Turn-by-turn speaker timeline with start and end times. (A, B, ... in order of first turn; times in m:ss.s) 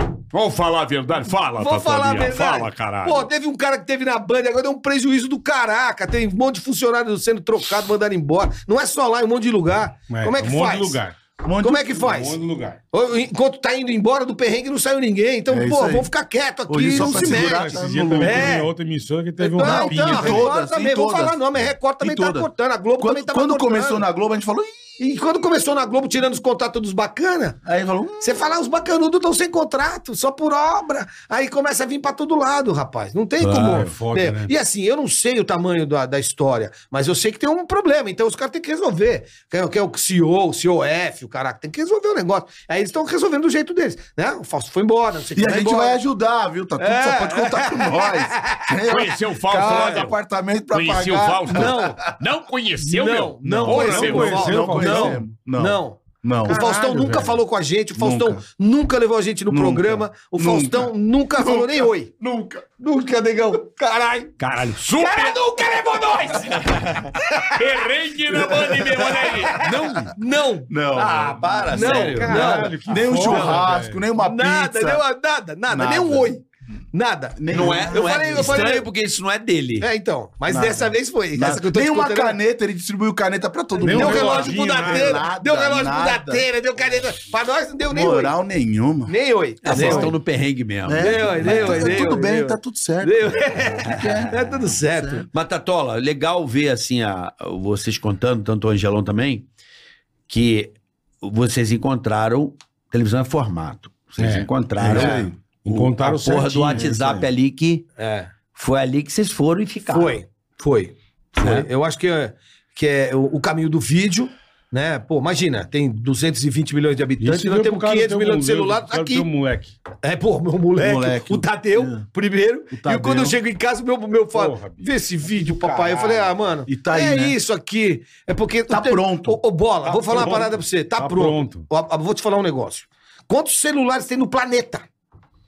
0:00.3-0:03.3 A
0:01.6-0:11.0 B
0:10.1-0:11.2 C
0:11.4-0:12.1 D
0:11.6-0:12.4 B
0:11.9-0:12.8 C
0:12.9-0:18.7 B
0:15.5-0:16.1 D
0:16.7-0:18.6 D
0:16.9-0:20.5 C
0:19.4-0:24.0 B
0:19.6-0:22.5 D
0:23.0-0:25.0 D
0:25.0-0:27.6 B
0:27.6-0:28.5 D
0:28.2-0:46.0 B
0:33.4-0:33.8 E
0:33.4-0:34.5 C
0:45.4-0:52.0 D
0:46.8-0:48.7 B
0:48.9-0:50.2 E
0:48.9-0:50.0 A
0:49.5-0:50.1 B
0:50.7-0:51.7 A
0:50.8-0:53.3 E
0:51.5-0:52.0 B
0:52.2-0:54.4 A
0:52.8-1:02.1 B
0:53.4-0:55.3 C
0:53.7-0:56.6 D
0:56.4-0:57.4 C
0:58.0-0:58.4 D
0:59.5-1:02.6 D
1:02.8-1:04.3 B
1:04.4-1:05.4 E
1:04.9-1:07.6 B
1:05.0-1:05.3 A
1:06.3-1:07.1 E
1:07.6-1:09.7 A
1:07.8-1:10.0 E
1:08.7-1:10.7 B
1:10.7-1:12.3 D
1:10.9-1:13.5 E
1:11.7-1:13.6 B
1:11.7-1:14.0 C
1:12.8-1:15.0 D
1:14.2-1:18.9 B
1:15.7-1:16.4 D
1:17.4-1:18.6 D
1:17.5-1:19.9 E
1:19.8-1:22.4 B
1:20.5-1:26.5 D
1:23.8-1:25.3 C
1:23.8-1:28.4 B
1:27.9-1:29.1 D
1:29.1-1:30.1 B
1:29.6-1:32.1 E
1:29.7-1:30.1 D
1:30.8-1:35.3 D
1:31.0-1:35.3 B
1:35.3-1:39.5 E
1:40.3-1:47.9 E
1:44.2-1:45.1 C
1:44.8-1:45.4 D
1:44.9-1:45.2 B
1:45.6-1:46.9 C
1:46.7-1:47.3 D
1:48.0-1:48.3 B
1:48.6-1:50.2 E
1:49.9-1:59.3 B
1:51.4-1:51.7 E
1:57.2-1:59.8 C
2:00.0-2:14.8 B
2:00.8-2:02.0 D
2:02.7-2:03.4 D
2:04.3-2:06.4 C
2:06.7-2:07.4 D
2:08.7-2:09.4 D
2:09.9-2:11.7 C
2:10.1-2:10.5 D